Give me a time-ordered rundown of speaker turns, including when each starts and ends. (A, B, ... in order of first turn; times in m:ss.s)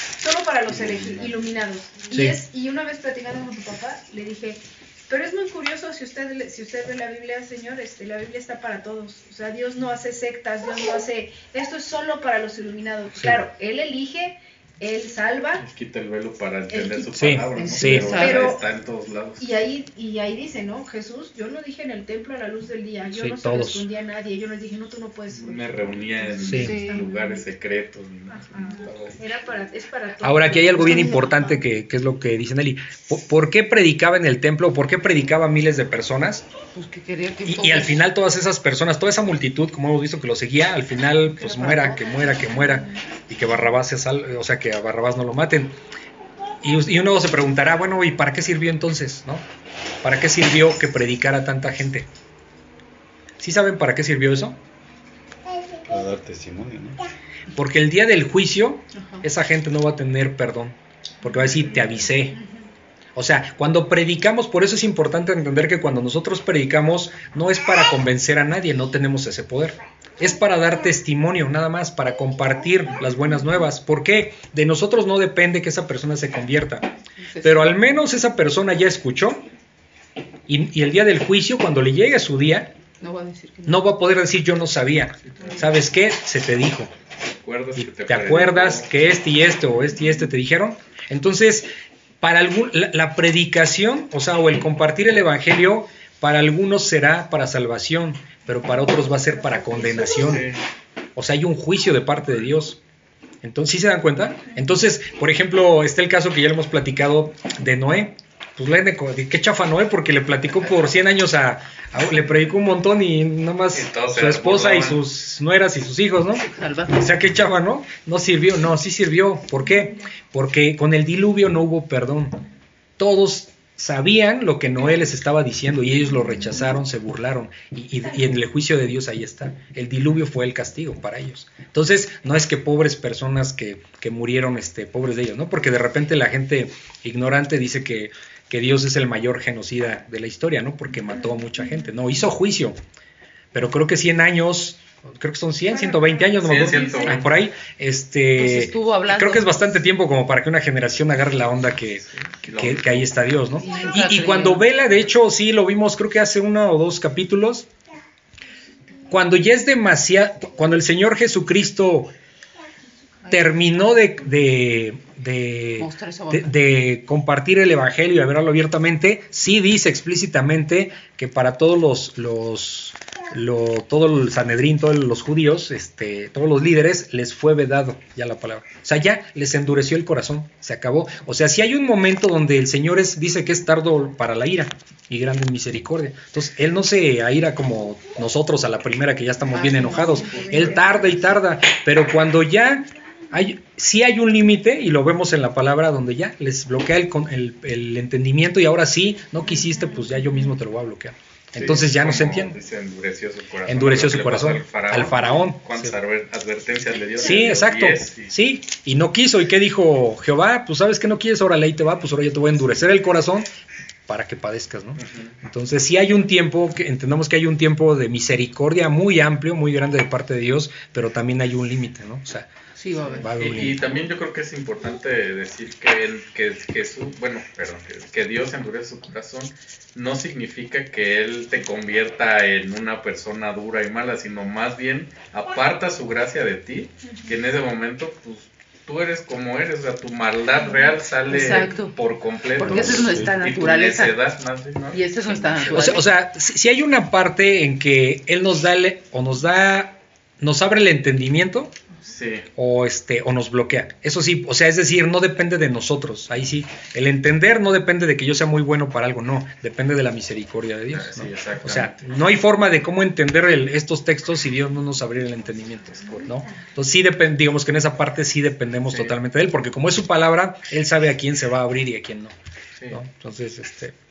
0:00.2-0:15.6 A
0:00.7-0:01.4 B
0:02.1-0:02.4 C
0:15.6-0:19.5 B
0:16.7-0:17.6 A
0:17.2-0:18.2 C
0:17.6-0:18.6 D
0:18.1-0:18.6 A
0:19.4-0:27.4 A
0:23.1-0:23.9 C
0:25.3-0:29.1 B
0:26.4-0:26.7 C
0:26.6-0:27.1 D
0:28.3-0:31.3 A
0:30.2-0:36.4 C
0:30.8-0:31.6 D
0:36.7-0:38.0 D
0:37.4-0:45.8 C
0:41.3-0:42.6 D
0:42.6-0:43.0 A
0:46.6-0:49.4 C
0:50.0-0:52.1 C
0:53.4-0:54.6 C
0:55.8-0:57.0 E
0:57.5-1:02.4 C
0:58.9-0:59.2 D
1:01.2-1:02.6 A
1:03.2-1:19.4 C
1:17.2-1:17.7 D
1:20.5-1:22.7 C
1:23.0-1:23.9 D
1:23.6-1:26.9 C
1:27.2-1:28.9 B
1:27.8-1:31.7 C
1:32.2-1:40.5 C
1:40.1-1:40.6 B
1:41.2-1:42.8 C
1:43.4-2:02.4 C
1:53.7-1:55.0 B
1:56.4-1:57.1 D
2:03.0-2:22.8 C
2:23.5-2:37.7 C
2:25.7-2:27.1 A
2:26.4-2:27.3 B
2:26.5-2:27.2 D
2:28.4-2:29.6 D
2:32.4-2:33.2 B
2:33.6-2:34.6 D
2:39.1-2:42.1 C
2:43.3-3:22.6 C
2:45.8-2:46.6 D
3:09.5-3:11.0 D
3:09.6-3:11.3 A
3:21.6-3:28.3 B
3:23.7-3:25.9 C
3:27.2-3:33.5 C
3:34.1-3:42.5 C
3:35.0-3:35.3 B
3:42.8-3:43.6 D
3:43.1-4:05.7 B
3:43.2-3:43.9 C
4:01.3-4:01.9 D
4:02.6-4:04.1 D
4:02.6-4:03.3 E
4:04.9-4:06.1 D
4:05.7-4:11.7 C
4:12.0-4:12.5 B
4:12.6-4:32.3 C
4:20.9-4:22.1 B
4:32.9-4:33.9 C